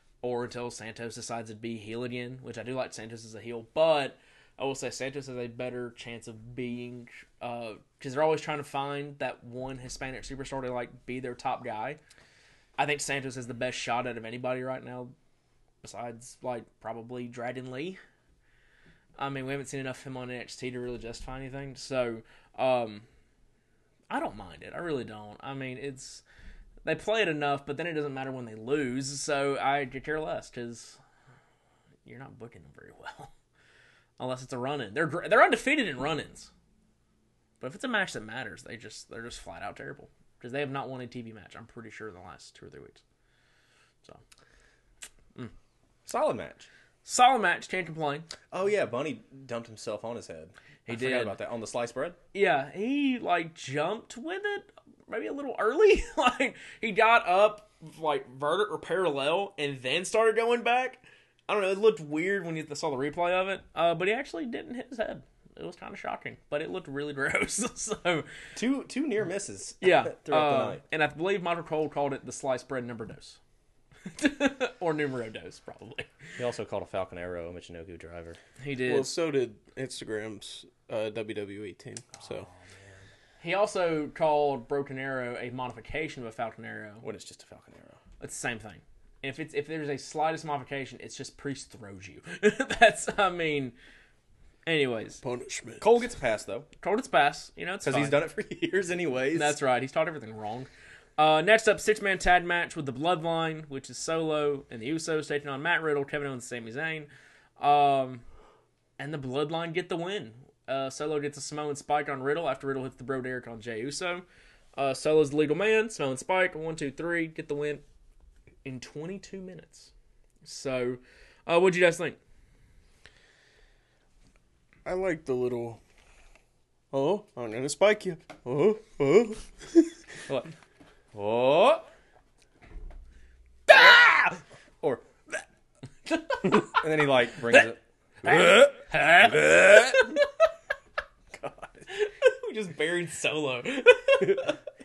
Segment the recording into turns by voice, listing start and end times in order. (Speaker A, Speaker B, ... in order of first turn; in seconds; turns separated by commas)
Speaker A: 0.2-12.0, Speaker A: 12.8-15.1, Speaker A: 15.8-18.0, Speaker A: 19.2-23.1, Speaker A: 24.1-26.2, Speaker A: 26.9-31.0, Speaker A: 32.0-33.3, Speaker A: 34.2-36.5, Speaker A: 37.6-43.0, Speaker B: 46.1-46.7, Speaker A: 47.0-48.3, Speaker B: 48.5-52.2, Speaker A: 50.9-51.4, Speaker A: 52.3-68.3, Speaker B: 68.5-70.8, Speaker A: 69.8-73.4, Speaker A: 74.2-76.1, Speaker B: 76.4-78.4, Speaker A: 78.6-79.1, Speaker C: 78.9-82.5, Speaker B: 82.2-83.0, Speaker A: 83.4-87.0, Speaker B: 87.0-88.0, Speaker A: 88.2-93.8, Speaker A: 94.7-95.2, Speaker C: 95.2-95.9, Speaker B: 95.8-96.7, Speaker A: 96.8-98.2, Speaker B: 97.8-99.6, Speaker A: 99.3-108.2, Speaker A: 109.0-114.2, Speaker A: 114.8-117.8, Speaker A: 118.7-119.9, Speaker A: 120.4-122.2, Speaker C: 124.8-125.8, Speaker C: 126.9-129.9, Speaker B: 131.1-131.9, Speaker A: 133.7-134.3, Speaker B: 133.7-134.3, Speaker B: 134.8-135.4, Speaker A: 136.1-136.8, Speaker B: 136.5-140.2, Speaker A: 138.2-140.3, Speaker B: 141.3-141.9, Speaker A: 141.9-144.6